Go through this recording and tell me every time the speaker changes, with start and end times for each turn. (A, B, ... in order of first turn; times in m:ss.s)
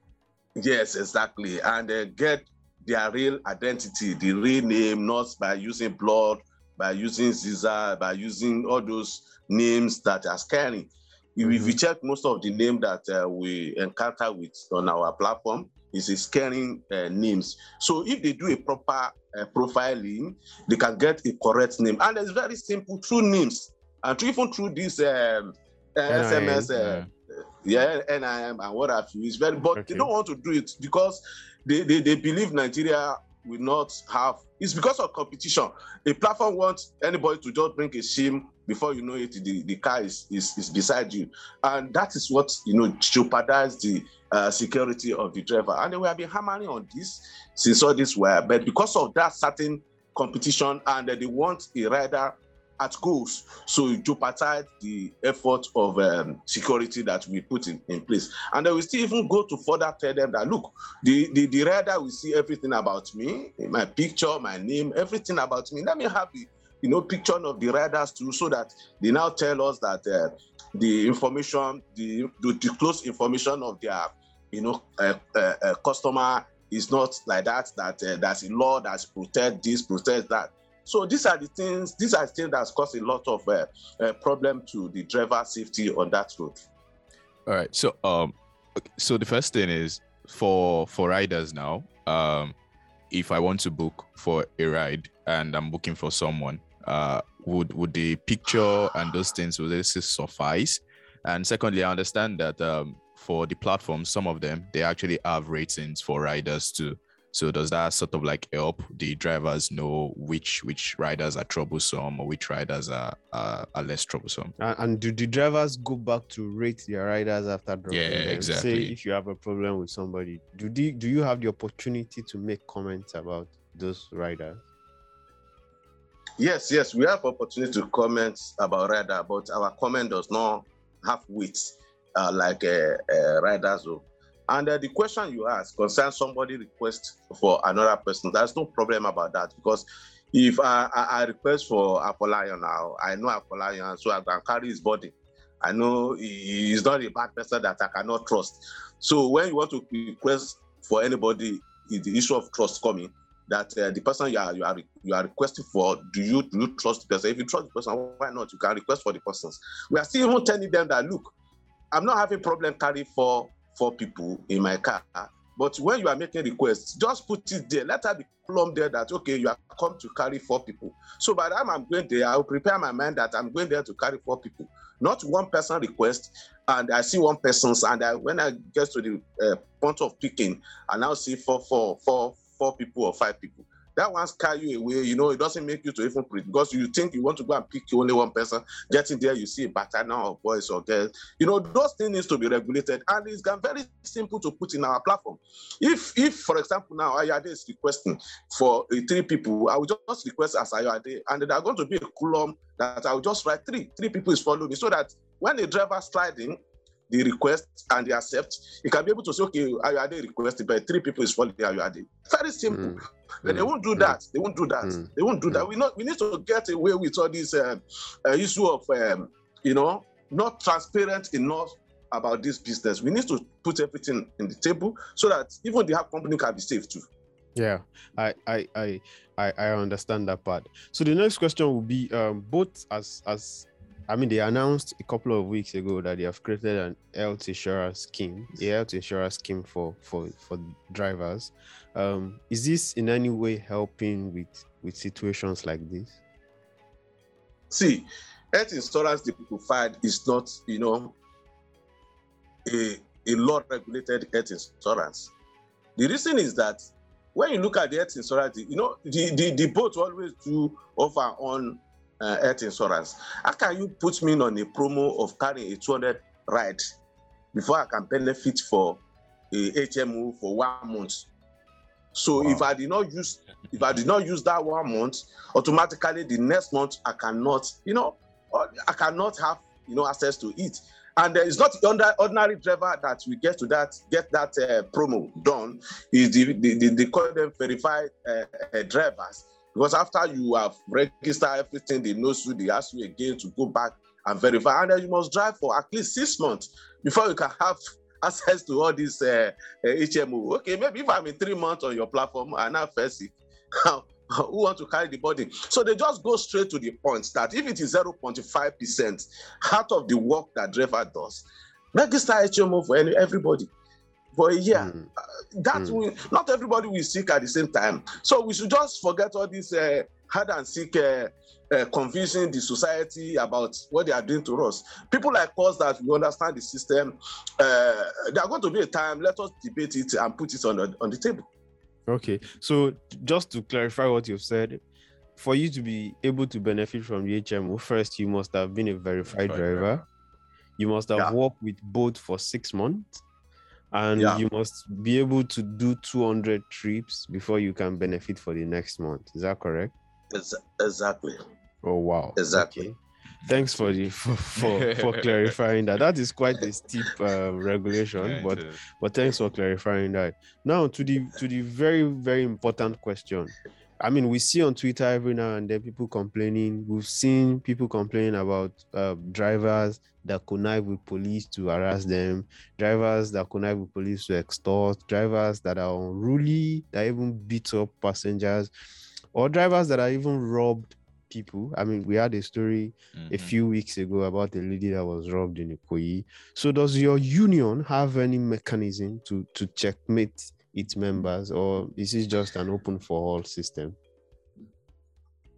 0:00.6-1:26.6 A
0:11.4-0:11.8 B
0:26.1-0:26.7 B
0:26.8-0:27.1 C
0:29.7-0:30.1 B
1:27.5-1:32.6 C
1:33.1-1:54.5 C
1:54.6-2:04.6 B
1:57.9-1:59.0 C
2:06.4-2:41.3 A
2:41.9-3:47.0 A
3:32.7-3:34.2 B
3:34.8-3:35.6 B
3:47.6-4:06.2 B
4:07.7-4:11.2 A
4:12.7-4:15.3 A
4:16.0-4:26.8 A
4:27.5-4:29.0 A
4:29.5-4:31.3 A
4:32.2-5:13.7 A
4:32.4-4:32.6 B
5:14.4-5:14.9 A
5:14.8-5:15.1 B
5:15.6-5:31.4 A
5:32.1-5:34.8 B
5:35.4-5:40.0 B
5:39.4-5:40.0 C
5:40.8-5:43.2 B
5:43.9-5:49.9 B
5:50.3-5:51.4 A
5:51.8-6:18.7 B
5:52.4-5:52.8 A
5:54.6-5:55.3 C
5:58.2-5:58.8 C
6:19.3-6:34.0 B
6:23.2-6:23.5 C